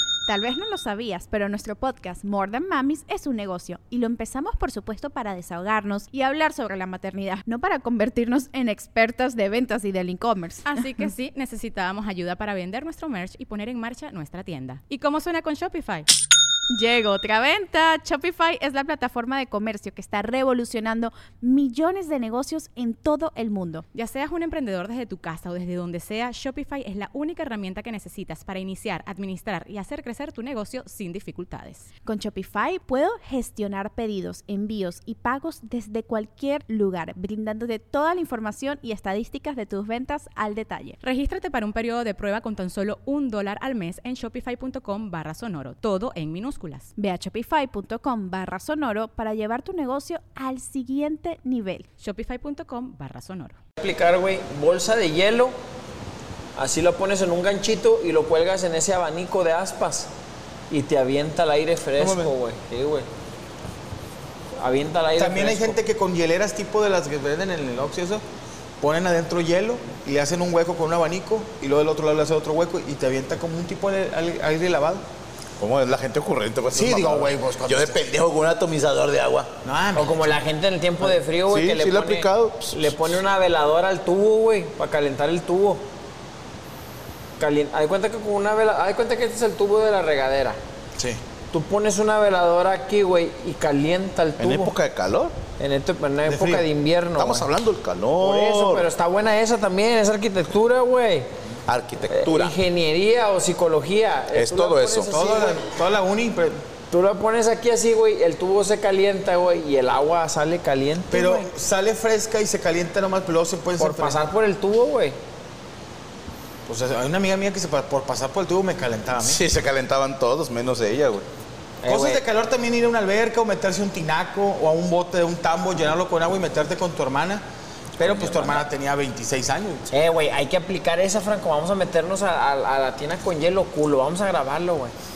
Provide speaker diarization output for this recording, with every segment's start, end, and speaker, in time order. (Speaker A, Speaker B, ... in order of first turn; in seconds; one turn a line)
Speaker A: 0.3-11.1
Speaker B: 10.7-16.1
Speaker A: 16.7-23.9
Speaker B: 23.9-31.9
Speaker A: 32.1-41.0
Speaker B: 41.0-46.9
Speaker A: 47.0-51.9
Speaker B: 52.0-53.6
Speaker C: 53.8-55.5
Speaker C: 56.6-60.1
Speaker C: 60.7-63.1
Speaker D: 62.0-62.3
Speaker C: 64.6-65.8
Speaker E: 65.2-68.2
Speaker E: 68.8-75.0
Speaker D: 75.6-79.5
Speaker E: 76.8-78.0
Speaker E: 79.6-80.4
Speaker C: 80.0-85.8
Speaker D: 81.0-83.0
Speaker C: 87.4-90.6
Speaker C: 91.5-94.8
Speaker D: 94.4-95.4
Speaker C: 95.6-97.5
Speaker E: 96.2-96.7
Speaker D: 97.2-98.9
Speaker C: 98.2-101.3
Speaker D: 101.7-102.6
Speaker C: 102.1-105.6
Speaker D: 104.3-105.1
Speaker E: 105.1-106.5
Speaker C: 106.9-111.5
Speaker E: 111.1-114.2
Speaker C: 113.8-115.2
Speaker E: 116.7-119.4
Speaker D: 119.2-121.2
Speaker C: 121.8-122.2
Speaker E: 121.8-127.4
Speaker E: 128.0-129.9
Speaker D: 128.1-128.3
Speaker C: 129.9-134.9